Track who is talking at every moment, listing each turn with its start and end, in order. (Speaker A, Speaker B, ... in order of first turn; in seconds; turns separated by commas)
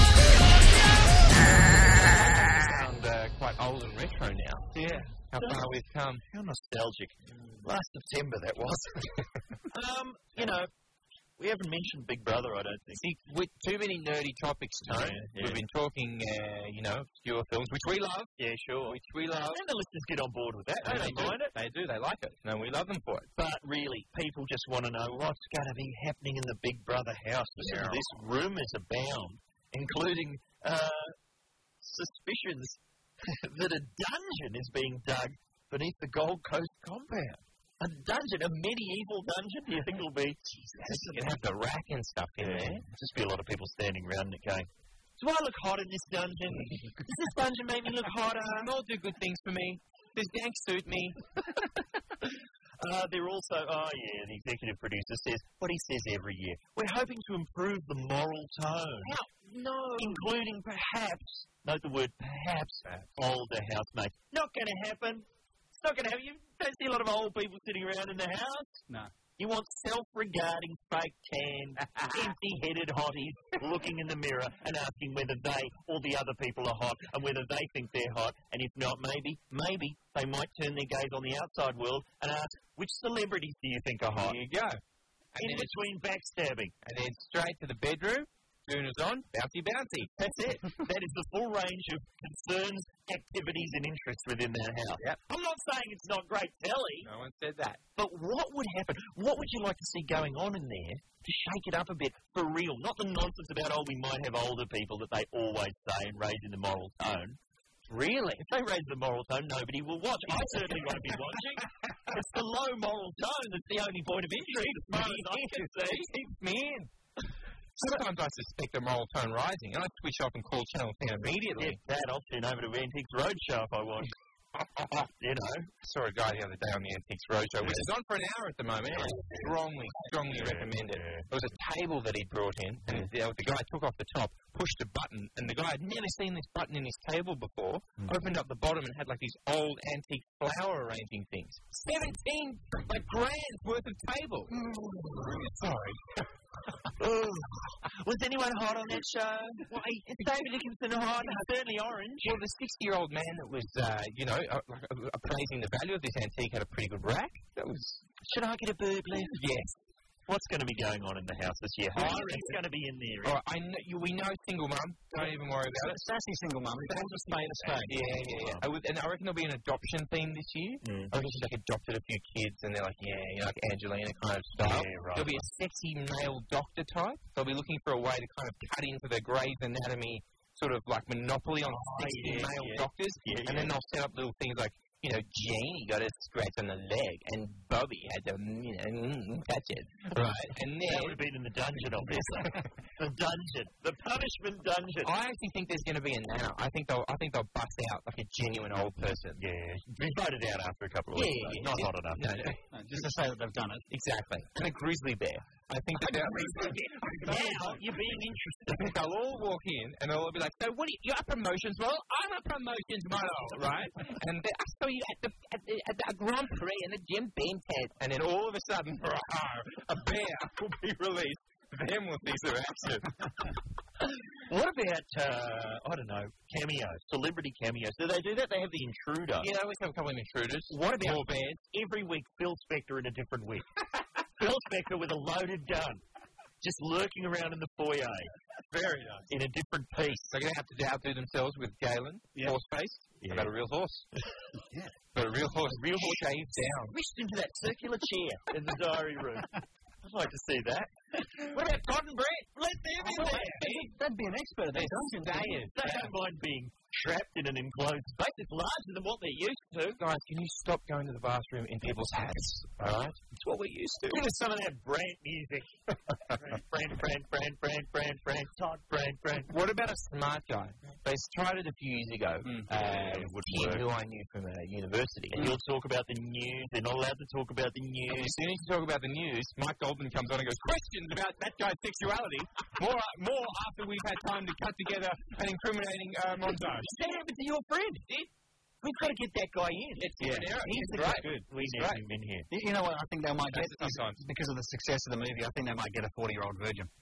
Speaker A: 2.1-4.8, Speaker B: 4.8-5.0, Speaker C: 4.9-5.7, Speaker A: 5.3-6.2, Speaker C: 6.3-9.2, Speaker C: 9.7-10.7, Speaker C: 11.4-13.0, Speaker A: 13.0-18.3, Speaker C: 14.9-15.6, Speaker C: 18.4-19.0, Speaker A: 18.9-19.6, Speaker C: 19.5-21.5, Speaker A: 20.8-23.3, Speaker C: 23.4-31.1, Speaker A: 27.6-28.0, Speaker C: 31.8-40.4, Speaker A: 40.6-42.9, Speaker C: 42.4-48.7, Speaker A: 48.4-51.2, Speaker C: 52.8-59.2, Speaker A: 59.0-60.2, Speaker C: 60.0-68.8, Speaker C: 69.4-84.4, Speaker A: 84.2-84.8, Speaker A: 85.3-85.7, Speaker C: 85.4-86.7, Speaker A: 86.8-90.1, Speaker C: 90.2-97.1, Speaker A: 97.0-97.8, Speaker C: 98.0-107.4, Speaker A: 107.9-108.4, Speaker C: 108.4-116.1, Speaker A: 114.8-116.9, Speaker A: 117.8-121.8, Speaker C: 121.6-124.1, Speaker A: 124.6-125.1, Speaker C: 125.2-125.7, Speaker A: 125.8-144.6, Speaker C: 127.6-127.9, Speaker C: 128.9-129.6, Speaker C: 130.3-131.3, Speaker C: 144.5-145.4, Speaker A: 145.3-146.3, Speaker C: 147.0-152.4, Speaker A: 152.2-158.0, Speaker C: 158.2-159.4, Speaker A: 159.1-159.8, Speaker C: 160.3-163.4, Speaker A: 162.0-162.6, Speaker A: 163.2-166.0, Speaker B: 165.2-168.0, Speaker A: 166.9-191.2, Speaker C: 168.1-168.7, Speaker C: 170.8-171.2, Speaker C: 174.6-175.5, Speaker C: 181.6-183.8, Speaker C: 190.8-195.1, Speaker A: 192.1-192.6, Speaker A: 195.0-199.4, Speaker C: 199.4-202.2, Speaker A: 201.1-202.6, Speaker B: 202.7-203.9, Speaker A: 203.9-207.8, Speaker C: 206.3-208.9, Speaker A: 208.7-223.3, Speaker C: 224.4-229.5, Speaker A: 229.4-231.6, Speaker C: 230.7-233.7, Speaker C: 234.4-236.0, Speaker C: 236.6-238.3, Speaker A: 238.7-239.3, Speaker C: 239.3-240.3, Speaker A: 240.3-244.1, Speaker C: 243.2-243.5, Speaker A: 245.1-246.9, Speaker C: 245.7-249.5, Speaker C: 250.0-253.8, Speaker A: 253.0-253.9, Speaker B: 253.1-255.7, Speaker A: 254.7-256.1, Speaker C: 255.7-260.0, Speaker A: 260.0-264.2, Speaker C: 264.1-269.5, Speaker A: 269.5-275.5, Speaker C: 272.7-273.9, Speaker C: 275.3-278.4, Speaker A: 278.1-286.9, Speaker C: 286.8-288.0, Speaker C: 288.8-292.5, Speaker A: 289.9-292.0, Speaker B: 290.2-291.5, Speaker B: 292.5-296.9, Speaker A: 293.5-294.2